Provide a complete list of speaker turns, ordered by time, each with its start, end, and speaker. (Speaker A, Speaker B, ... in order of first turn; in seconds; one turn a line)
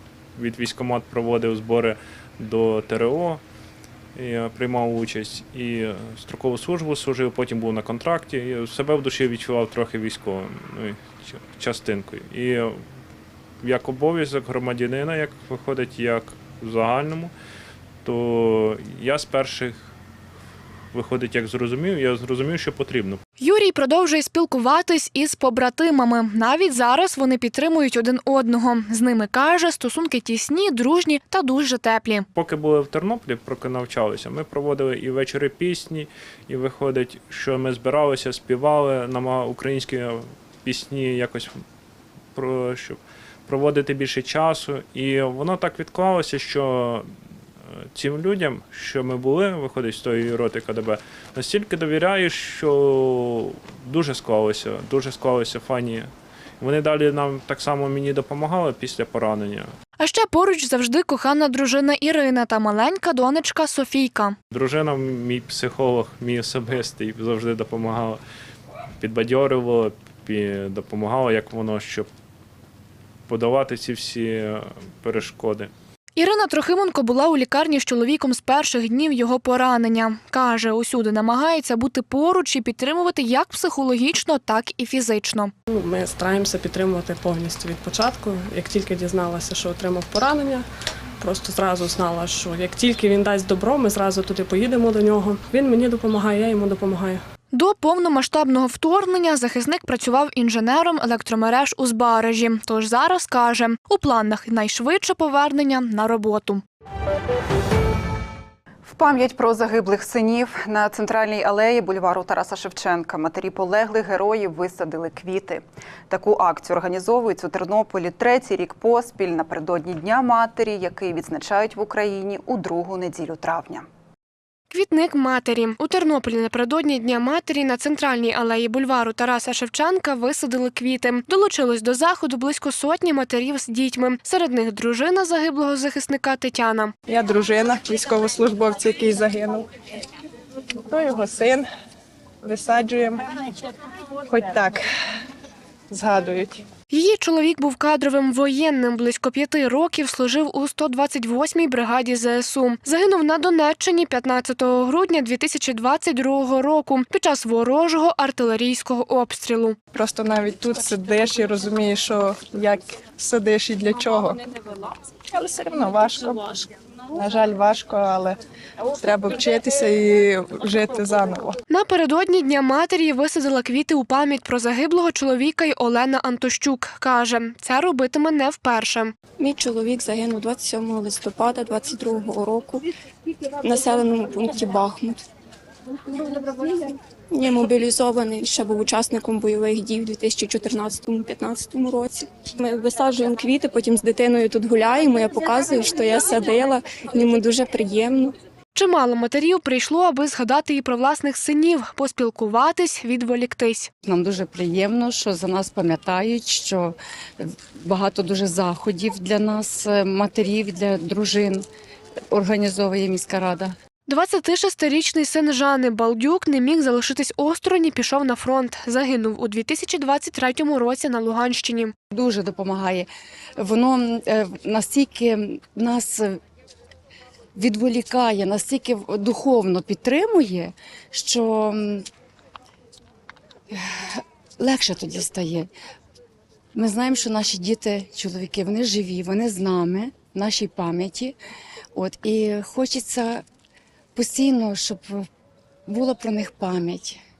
Speaker A: 0.3-3.4
Speaker A: 4.1-12.8
Speaker A: 13.6-17.3
Speaker A: 18.0-19.8
Speaker A: 20.9-23.2
Speaker B: 23.4-32.2
Speaker A: 32.3-41.6
Speaker A: 42.3-47.1
Speaker A: 47.9-59.7
Speaker B: 60.0-64.3
Speaker A: 64.5-68.2
Speaker A: 69.0-72.1
Speaker A: 73.3-75.7
Speaker B: 76.2-85.5
Speaker C: 85.7-90.7
Speaker C: 91.2-97.2
Speaker B: 97.5-106.6
Speaker D: 108.8-123.8
Speaker B: 124.7-136.9
Speaker E: 137.1-139.7
Speaker E: 140.8-141.7
Speaker E: 142.4-143.2
Speaker E: 144.3-144.8
Speaker E: 145.9-146.6
Speaker B: 146.9-159.8
Speaker E: 159.9-164.4
Speaker E: 165.3-168.4
Speaker E: 169.0-171.6
Speaker B: 171.7-179.1
Speaker F: 179.4-182.8
Speaker F: 183.6-185.2
Speaker F: 187.3-198.3
Speaker B: 198.7-203.9
Speaker G: 204.0-211.7
Speaker G: 212.3-213.8
Speaker B: 214.1-221.9
Speaker G: 222.1-226.4
Speaker G: 227.6-232.0
Speaker G: 234.6-235.7
Speaker G: 236.7-241.3
Speaker G: 241.9-243.4
Speaker G: 244.1-245.2
Speaker G: 245.9-247.2